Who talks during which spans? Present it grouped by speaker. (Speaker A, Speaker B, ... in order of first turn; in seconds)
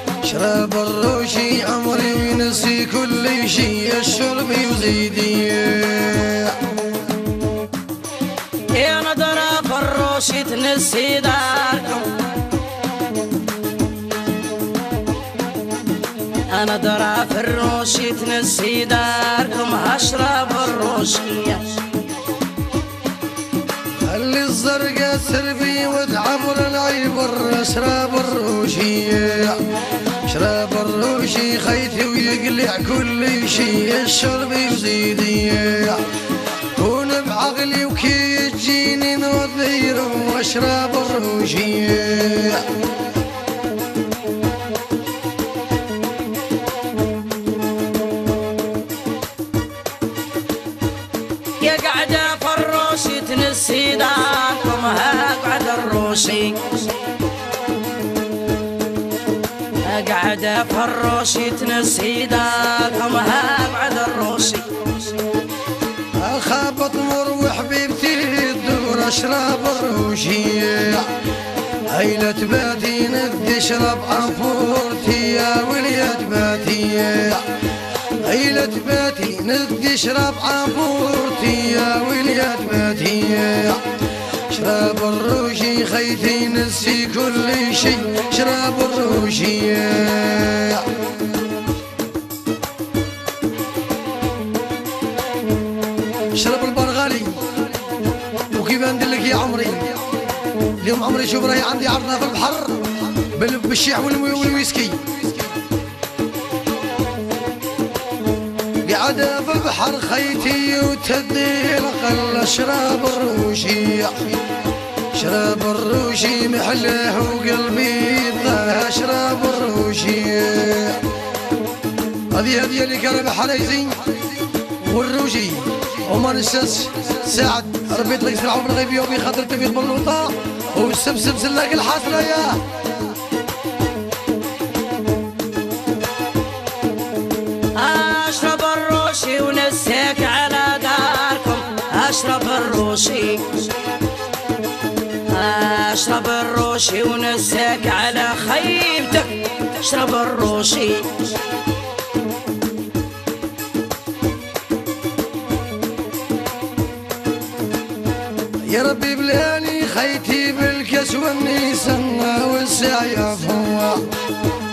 Speaker A: 0.2-6.6, 24.0-29.6, 30.2-36.0, 36.6-42.7, 66.2-71.1, 71.9-77.5, 78.1-91.0, 96.3-97.5, 98.5-100.1, 100.8-105.5, 108.8-114.3, 115.1-121.1, 122.3-132.6, 158.6-164.1
Speaker B: 8.7-12.3, 16.5-21.9, 51.6-56.9, 59.8-64.8, 137.7-143.7, 145.3-151.2